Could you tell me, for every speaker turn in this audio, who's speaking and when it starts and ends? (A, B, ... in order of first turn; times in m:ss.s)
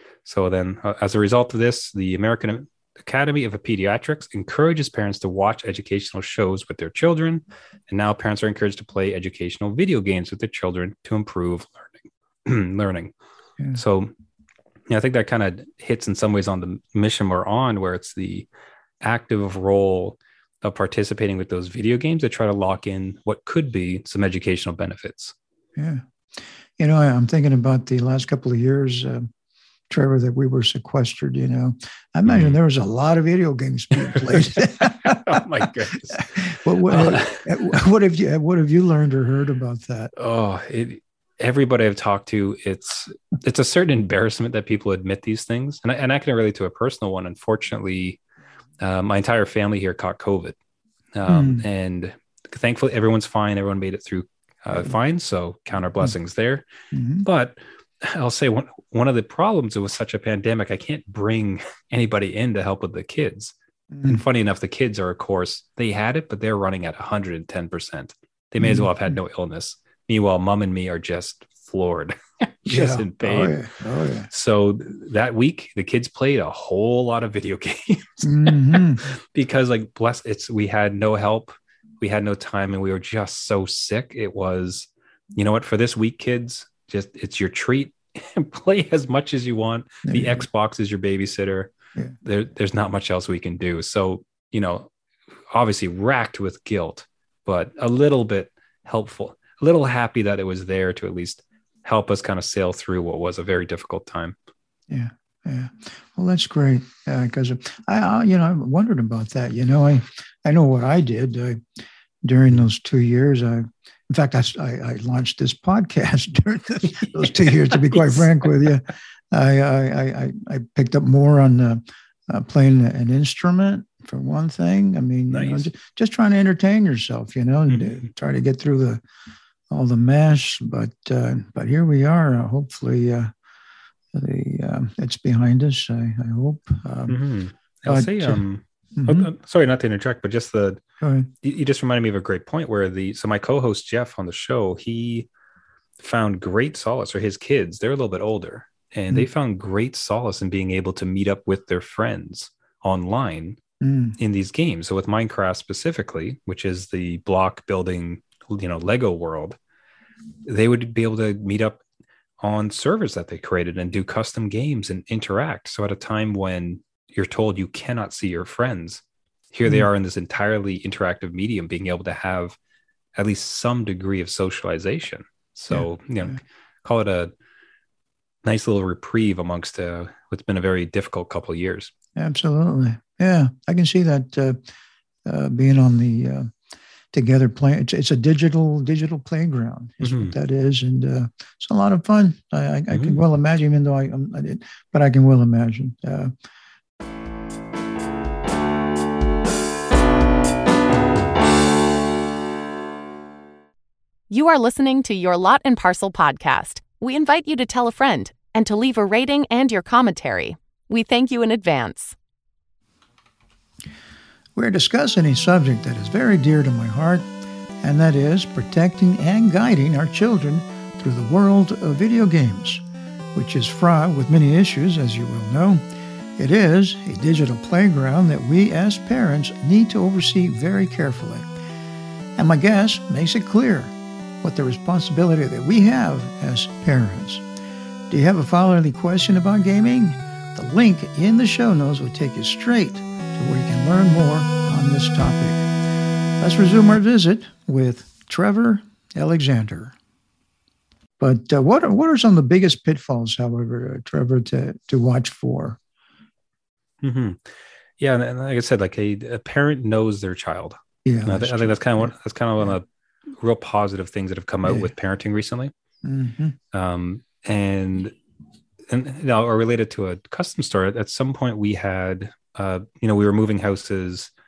0:00.2-0:13.1 A
0:13.7-0:14.1 A
0:14.9-0:18.5 A
0:19.0-0:25.4 A
0:25.8-0:26.0 B
0:26.8-0:29.3 B
0:29.9-0:35.4 B
0:32.3-0:32.6 A
0:34.2-0:37.5 A
0:36.2-0:40.1 B
0:40.2-0:48.2 A
0:48.8-0:50.6 A
0:51.2-0:56.6 A
0:51.3-0:51.6 B
0:56.9-0:57.3 B
0:57.2-1:13.6 A
1:03.9-1:04.2 B
1:08.6-1:08.9 B
1:12.7-1:14.3 B
1:14.3-1:34.9 A
1:18.2-1:19.1 B
1:30.1-1:30.4 B
1:35.5-1:44.4 A
1:44.9-1:51.6 B
1:52.2-2:09.0 B
1:57.8-1:58.2 A
2:05.3-2:05.7 A
2:07.7-2:07.9 A
2:09.7-2:13.3 B
2:14.1-2:17.2 B
2:17.1-2:20.8 A
2:17.9-2:18.4 B
2:19.0-2:19.3 B
2:21.0-2:21.3 B
2:21.4-2:25.3 A
2:26.0-2:33.6 A
2:33.8-2:34.2 B
2:34.2-2:39.6 A
2:40.4-2:41.8 A
2:42.4-2:52.6 A
2:53.2-2:57.3 A
2:55.7-2:56.4 B
2:58.4-3:01.9 A
3:02.2-3:04.6 B
3:05.2-3:06.5 B
3:07.1-3:16.3 B
3:10.0-3:10.3 A
3:12.9-3:13.2 A
3:24.3-3:32.2 C
3:34.6-3:37.3 B
3:37.8-3:42.8 B
3:43.4-3:45.8 B
3:46.4-3:51.5 B
3:52.4-3:57.4 B
3:58.1-4:05.7 B
4:06.4-4:09.9 B
4:11.2-4:15.8 B
4:17.0-4:25.7 A
4:21.0-4:22.8 B
4:24.6-4:24.9 B
4:26.0-4:26.6 B
4:26.7-4:28.2 A
4:28.9-4:34.3 A